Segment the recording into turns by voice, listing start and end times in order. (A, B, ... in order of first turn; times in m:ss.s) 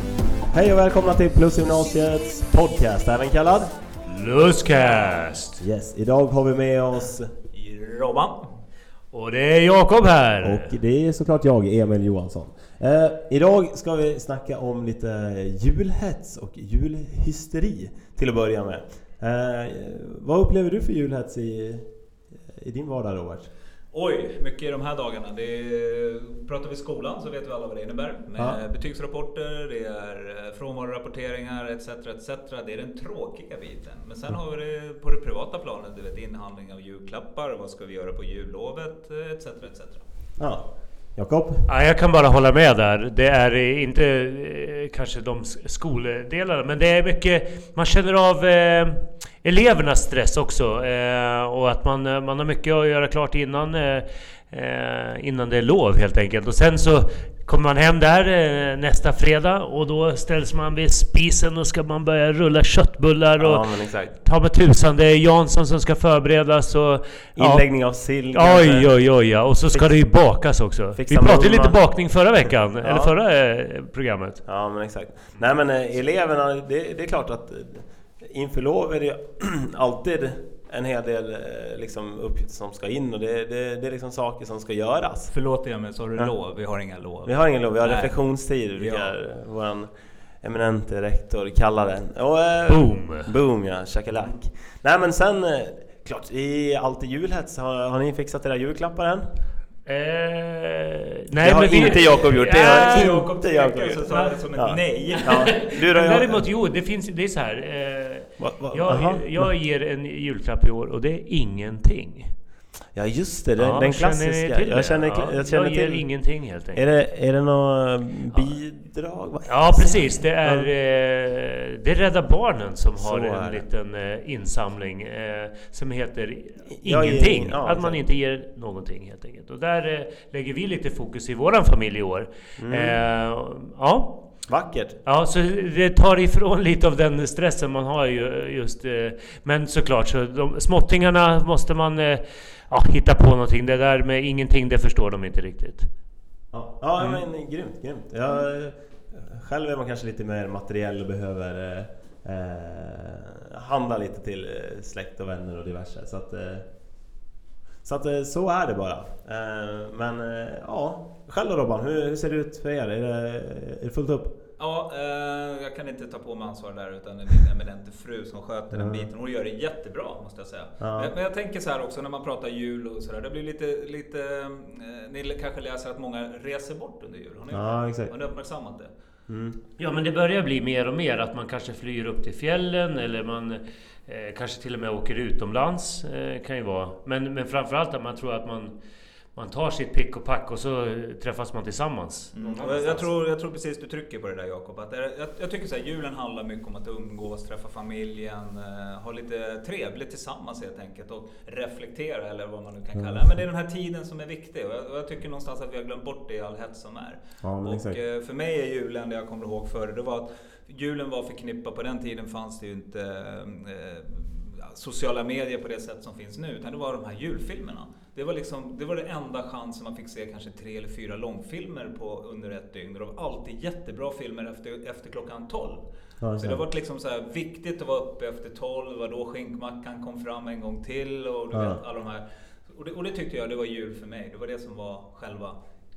0:00.5-0:03.7 A
0:04.1-0:05.6 B
0:05.6-0:07.3 A
0:07.5-0:08.4 C
0:09.1-0:10.7 B
0:10.4-0:23.5 A
0:23.9-0:40.0 C
0:40.4-0:41.7 A
0:41.7-1:14.4 B
1:03.4-1:04.2 A
1:07.4-1:09.1 A
1:09.7-1:10.0 A
1:10.9-1:13.2 A
1:14.4-1:25.3 A
1:25.3-1:28.2 C
1:27.2-1:29.9 A
1:28.7-1:29.1 C
1:30.4-1:39.3 A
1:32.7-1:33.3 B
1:39.8-1:43.3 B
1:41.4-1:46.5 A
1:42.1-1:45.6 C
1:45.1-1:52.3 B
1:48.4-1:49.5 A
1:52.9-2:00.7 A
1:53.6-1:56.8 B
1:59.5-2:14.2 B
2:03.0-2:03.6 A
2:06.8-2:08.0 A
2:12.6-2:13.0 A
2:14.5-2:15.0 A
2:15.0-2:25.9 B
2:26.5-2:36.6 A
2:27.0-2:27.2 B
2:37.8-2:44.4 A
2:44.6-2:58.9 C
2:48.7-2:49.1 A
2:50.8-2:51.1 A
2:57.5-2:58.1 A
2:59.3-2:59.6 A
2:59.8-3:08.7 B
3:09.3-3:13.0 B
3:12.3-3:45.8 C
3:22.9-3:23.3 A
3:27.4-3:28.0 A
3:46.2-3:46.6 A
3:46.4-3:55.6 C
3:51.5-3:51.8 A